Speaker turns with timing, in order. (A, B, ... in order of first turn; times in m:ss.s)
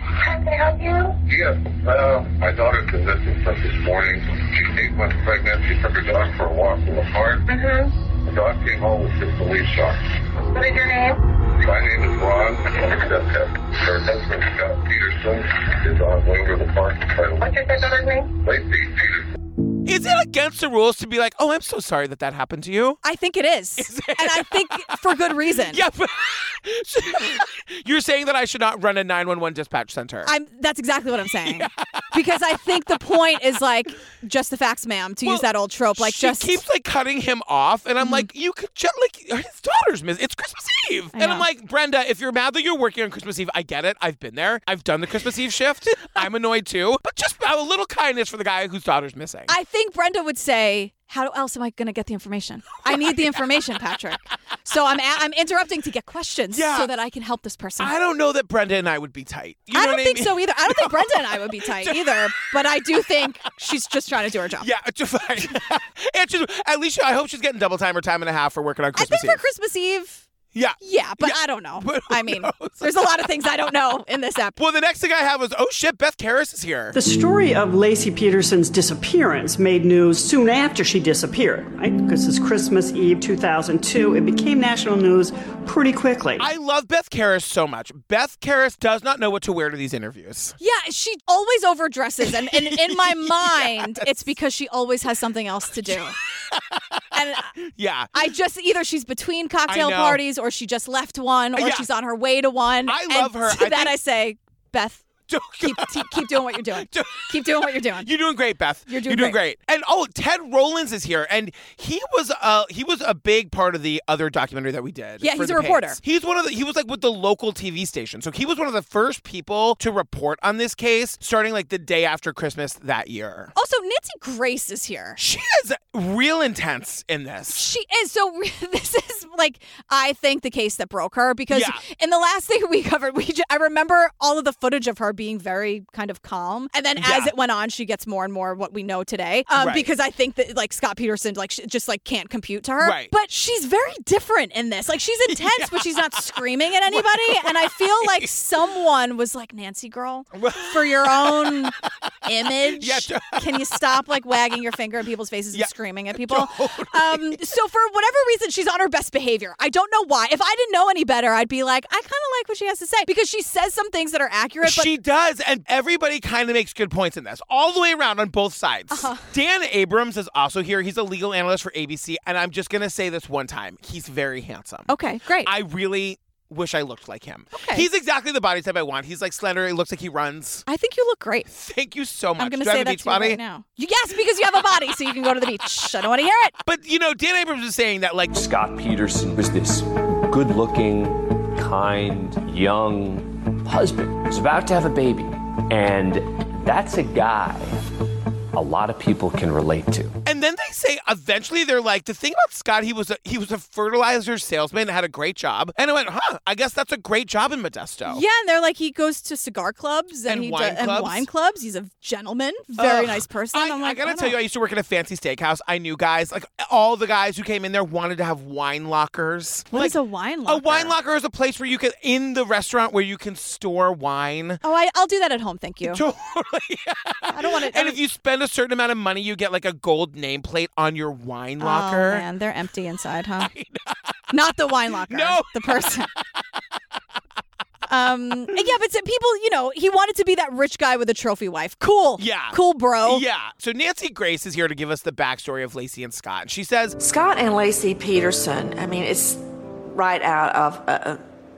0:00.2-0:01.2 A
0:01.3-0:07.4 B
0:07.5-0:07.9 A
0:08.2-0:10.1 B
0:10.5-0:11.2 A
0:11.6-0:17.5 B
0:17.4-0:18.3 A
0:18.4-0:19.3 B
0:19.9-0:23.0 C
0:23.0-0:25.8 D
0:23.8-0:24.9 C
0:25.7-0:30.3 C
0:30.2-0:36.6 D
0:31.4-0:32.1 C
0:36.0-0:49.5 C
0:38.0-0:38.3 D
0:41.2-0:41.5 D
0:49.5-0:57.9 D
0:52.9-0:53.4 C
0:56.5-0:56.9 C
0:57.8-1:02.5 C
0:59.7-1:04.7 D
1:04.6-1:09.4 C
1:09.0-1:10.3 D
1:10.5-1:13.1 C
1:10.8-1:14.6 D
1:14.6-1:17.0 C
1:16.9-1:26.5 E
1:26.4-1:30.6 C
1:30.6-1:36.2 D
1:32.3-1:34.3 C
1:37.2-1:37.5 D
1:37.6-1:38.1 C
1:38.1-1:45.1 D
1:39.7-1:40.2 C
1:41.6-1:41.9 C
1:42.9-1:44.0 C
1:45.3-1:47.3 C
1:45.6-1:48.1 D
1:48.0-2:03.5 C
1:48.9-1:49.4 D
1:55.2-1:56.0 D
2:03.6-2:05.2 D
2:05.2-2:07.6 C
2:07.5-2:31.7 D
2:11.5-2:11.8 C
2:17.0-2:17.3 C
2:19.6-2:19.9 C
2:22.8-2:23.1 C
2:25.3-2:25.8 C
2:26.9-2:28.3 C
2:30.3-2:31.5 C
2:32.3-2:44.9 D
2:32.8-2:33.4 C
2:35.5-2:37.4 C
2:44.6-2:54.9 C
2:48.9-2:49.3 D
2:54.9-2:55.5 D
2:55.4-3:00.6 C
2:57.5-2:57.8 D
3:00.7-3:01.5 D
3:01.5-3:03.4 C
3:02.4-3:06.6 D
3:06.6-3:08.4 C
3:08.3-3:17.8 F
3:18.5-3:20.2 F
3:20.2-3:28.2 C
3:28.1-3:34.4 D
3:30.3-3:31.3 C
3:32.8-3:40.0 C
3:39.7-3:40.9 D
3:40.5-3:44.6 C
3:44.6-3:46.0 D
3:45.8-3:52.2 C
3:47.3-3:48.0 D
3:51.6-3:53.5 D
3:53.4-3:53.9 C
3:54.3-3:56.1 D
3:55.1-3:55.9 C
3:57.9-4:03.2 D
4:02.2-4:07.0 C
4:07.0-4:11.2 G